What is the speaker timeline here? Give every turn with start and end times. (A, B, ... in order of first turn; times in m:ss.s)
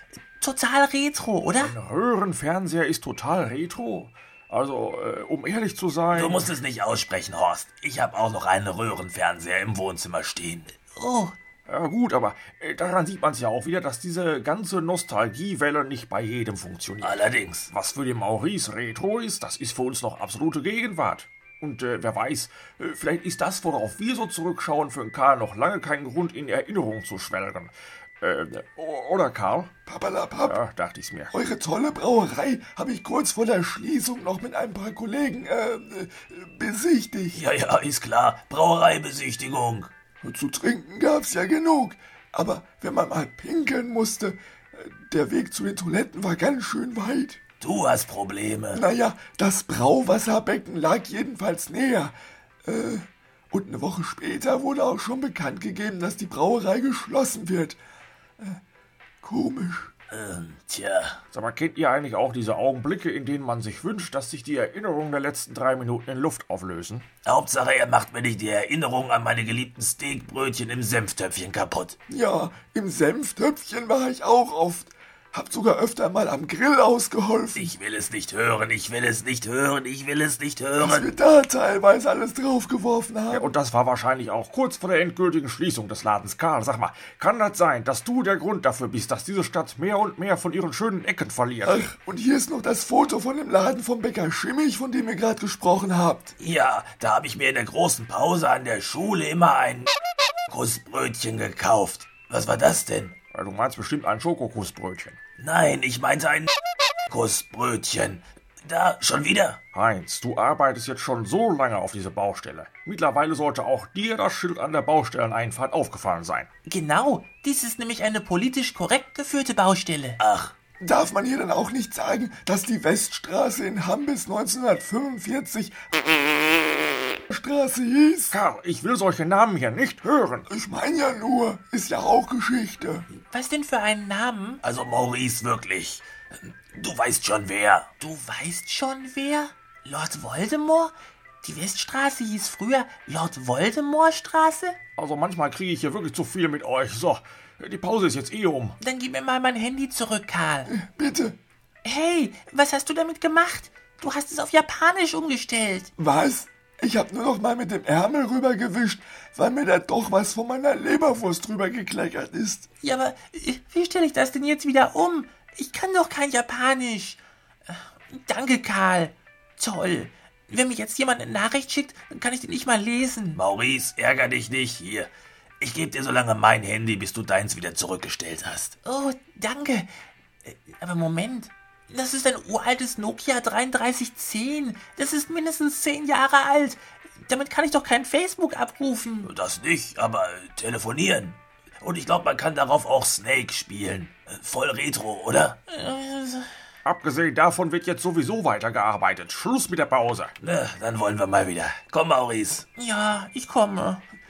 0:00.4-0:01.7 A
0:01.6-0:06.5 B
0:06.1-0:10.7 C
0:10.9-0:11.4 A
0:11.6-0:29.7 B
0:17.0-0:17.7 C
0:29.8-0:30.6 D
0:30.5-0:31.3 B
0:31.3-0:37.4 D
0:37.3-0:39.9 C
0:40.2-0:47.4 D
0:47.6-0:48.8 C
0:48.7-0:52.1 D
0:52.6-0:57.8 D
0:59.2-0:59.9 D
1:00.1-1:01.2 C
1:01.3-1:07.0 B
1:07.2-1:12.0 C
1:12.1-1:17.7 D
1:17.5-1:21.1 C
1:20.8-1:23.5 D
1:23.3-1:31.8 B
1:31.6-1:36.3 D
1:36.4-1:39.9 C
1:40.5-1:43.1 C
1:43.3-1:45.2 B
1:45.4-1:46.5 C
1:47.1-1:49.6 C
1:49.7-1:56.5 B
1:56.6-2:00.2 A
2:00.2-2:00.5 C
2:00.8-2:05.8 D
2:07.3-2:08.4 D
2:08.3-2:10.5 B
2:10.5-2:13.0 D
2:13.1-2:14.6 A
2:14.6-2:17.9 C
2:18.0-2:24.8 A
2:25.0-2:28.8 B
2:28.8-2:30.7 A
2:30.7-2:31.4 D
2:31.8-2:35.9 A
2:36.0-2:42.7 D
2:42.8-2:53.4 A
2:53.3-2:58.8 C
2:58.8-2:59.9 A
3:00.4-3:09.3 A
3:09.2-3:15.6 C
3:15.7-3:16.5 A
3:16.8-3:20.3 B
3:20.4-3:22.7 C
3:22.8-3:24.0 A